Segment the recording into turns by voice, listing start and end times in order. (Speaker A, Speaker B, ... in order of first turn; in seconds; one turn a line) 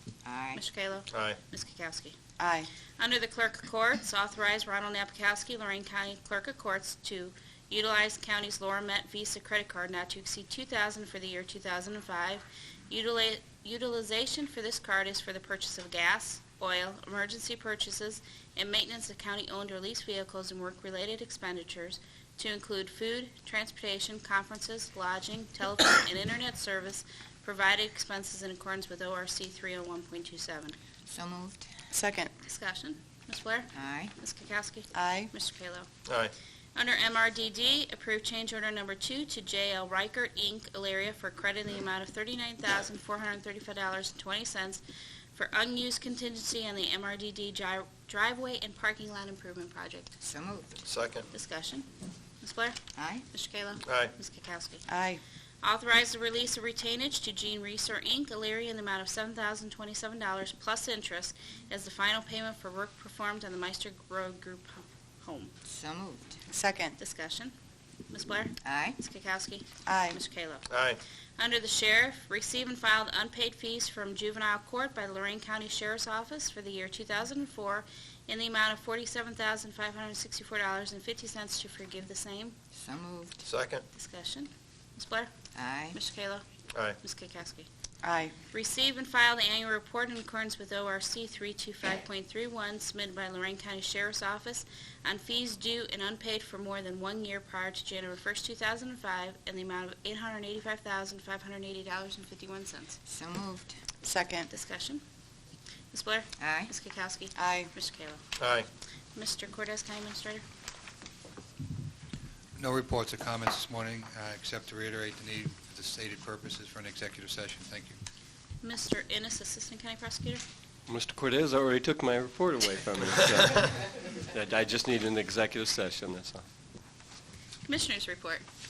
Speaker A: 0.2-0.6
Speaker B: 0.5-2.1
Speaker C: 1.1-1.4
Speaker D: 2.4-2.7
Speaker B: 3.0-30.8
Speaker A: 31.1-31.6
Speaker D: 31.9-32.3
Speaker B: 32.4-35.9
Speaker A: 33.7-34.1
Speaker D: 34.9-35.3
Speaker C: 36.0-36.3
Speaker B: 36.8-44.8
Speaker B: 45.3-50.1
Speaker A: 50.2-50.8
Speaker C: 50.9-51.3
Speaker B: 51.3-51.9
Speaker B: 52.4-52.8
Speaker A: 53.0-53.2
Speaker B: 53.3-54.8
Speaker C: 53.8-54.1
Speaker D: 54.9-55.2
Speaker B: 55.6-65.5
Speaker A: 65.7-66.4
Speaker D: 66.5-67.0
Speaker B: 67.0-67.5
Speaker B: 68.1-70.7
Speaker A: 68.6-69.0
Speaker D: 69.8-70.2
Speaker C: 70.7-71.0
Speaker B: 71.4-82.5
Speaker A: 82.7-83.4
Speaker C: 83.4-83.8
Speaker B: 83.9-85.3
Speaker A: 85.5-86.0
Speaker B: 85.9-86.4
Speaker B: 87.0-87.7
Speaker D: 88.0-88.3
Speaker B: 88.5-103.0
Speaker A: 103.1-103.8
Speaker D: 104.0-104.5
Speaker B: 104.5-105.0
Speaker B: 105.9-108.2
Speaker A: 106.4-106.7
Speaker D: 107.3-107.7
Speaker C: 108.4-108.7
Speaker B: 109.2-110.4
Speaker E: 112.5-118.0
Speaker B: 118.6-120.4
Speaker F: 120.9-126.4
Speaker B: 127.7-128.4